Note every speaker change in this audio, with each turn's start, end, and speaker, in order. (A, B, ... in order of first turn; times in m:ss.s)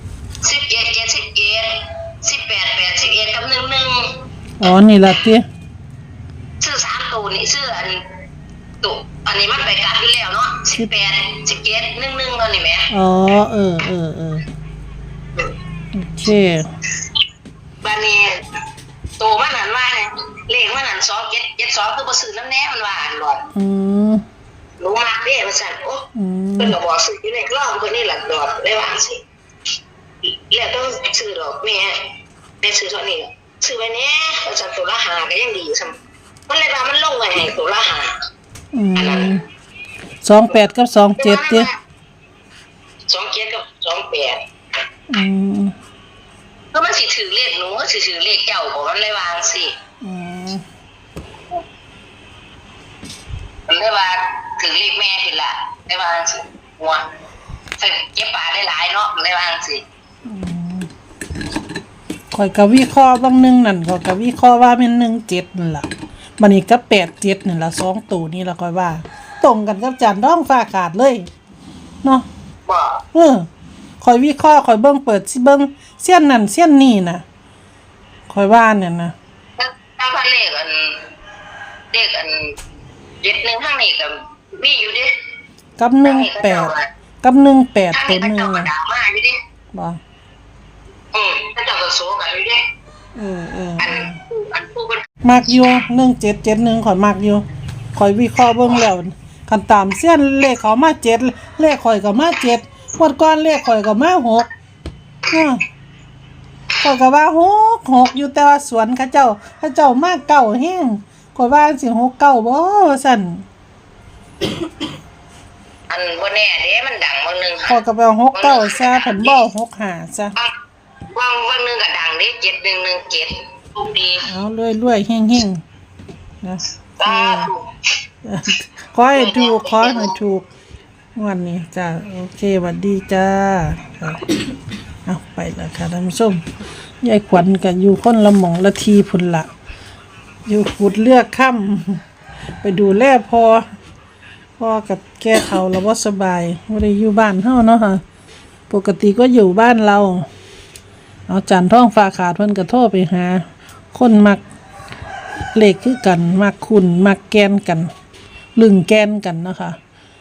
0:00.4-0:04.1 A
0:04.6-0:05.5 B
0:06.6-0:08.0 A
0:08.8-0:12.9 A
0:12.9-0:14.5 B
0:15.9-0:16.7 B
0:17.8-0:18.4 A
0:19.2-0:23.5 A
0:23.5-0:24.2 B
0:24.8-0:26.1 A
0:26.2-0:26.8 B
0:26.6-0:29.2 A
0:30.5-0:32.0 A
0:32.6-0:36.0 A
0:36.5-0:38.1 A
0:38.7-0:39.4 B
0:39.0-0:39.3 A
0:40.2-0:41.7 B
0:41.2-0:41.8 A
0:43.1-0:44.4 A
0:45.1-0:45.7 B
0:46.7-0:49.7 A
0:50.0-0:50.6 B
0:53.7-0:57.1 A
0:57.8-0:59.8 A
1:00.3-1:00.9 B
1:02.3-1:05.9 B
1:06.4-1:11.3 B
1:12.7-1:13.0 A
1:13.1-1:13.5 B
1:14.0-1:17.2 B
1:18.3-1:19.2 B
1:19.6-1:20.9 A
1:21.9-1:22.4 A
1:23.2-1:25.1 A
1:25.8-1:28.7 B
1:26.0-1:26.9 A
1:27.9-1:29.4 A
1:29.7-1:30.0 B
1:31.1-1:32.6 A
1:33.2-1:34.2 B
1:33.8-1:35.0 A
1:35.2-1:44.5 B
1:45.3-1:45.6 B
1:46.8-1:53.4 B
1:55.9-1:57.8 A
1:57.7-2:00.4 B
1:58.4-1:59.4 A
2:01.1-2:04.2 A
2:04.2-2:05.6 B
2:06.4-2:07.5 B
2:07.0-2:07.6 A
2:08.2-2:10.5 B
2:09.1-2:10.2 A
2:11.2-2:14.2 B
2:15.1-2:16.4 B
2:17.0-2:19.5 B
2:20.5-2:22.0 B
2:22.6-2:23.6 B
2:24.6-2:28.0 B
2:28.7-2:30.3 B
2:31.3-2:34.4 B
2:35.5-2:37.9 B
2:38.6-2:39.8 B